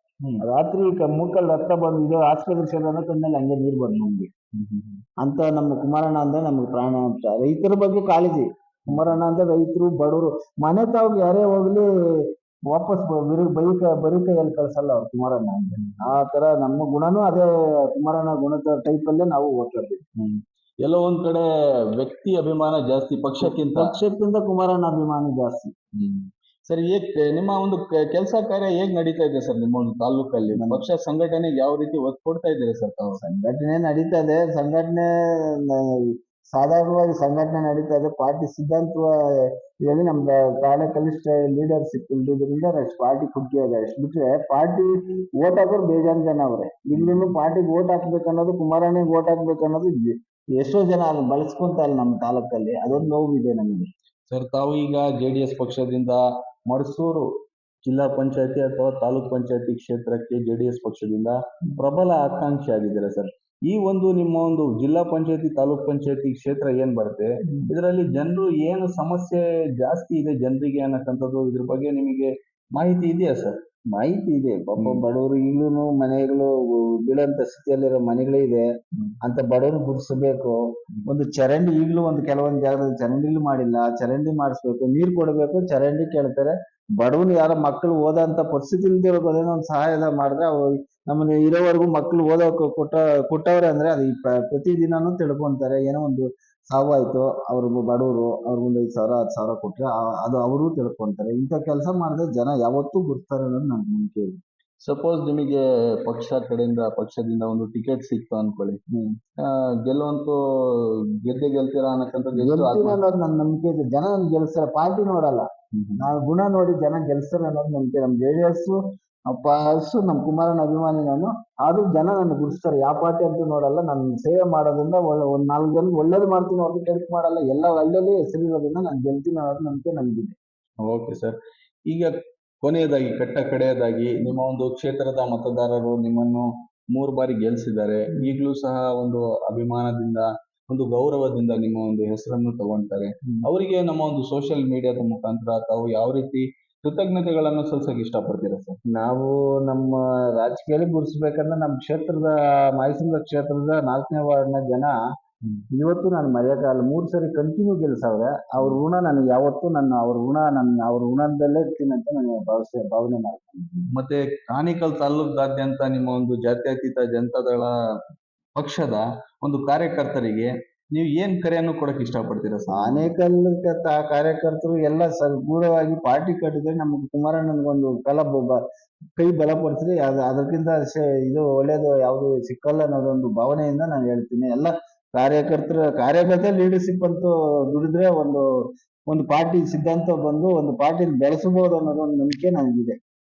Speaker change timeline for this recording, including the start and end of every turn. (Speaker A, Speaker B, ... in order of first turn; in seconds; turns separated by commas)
Speaker A: 0.4-4.3, Speaker B: 4.5-5.0, Speaker A: 5.2-20.0, Speaker B: 8.9-9.2, Speaker B: 15.8-16.1, Speaker B: 20.2-23.9, Speaker A: 23.4-25.7, Speaker B: 25.9-33.2, Speaker A: 30.5-30.8, Speaker A: 33.2-53.9, Speaker B: 46.9-47.3, Speaker B: 54.3-57.3, Speaker B: 57.8-73.6, Speaker A: 73.9-78.7, Speaker B: 74.8-75.0, Speaker A: 79.2-104.4, Speaker B: 104.8-108.8, Speaker A: 108.9-109.2, Speaker B: 109.4-113.0, Speaker A: 112.4-115.5, Speaker B: 115.7-116.1, Speaker A: 116.0-130.4, Speaker B: 130.8-131.4, Speaker B: 131.9-148.8, Speaker A: 148.9-155.0, Speaker A: 155.8-163.9, Speaker B: 163.9-167.7, Speaker B: 168.6-173.1, Speaker A: 172.7-178.6, Speaker A: 179.2-188.4, Speaker A: 189.1-193.0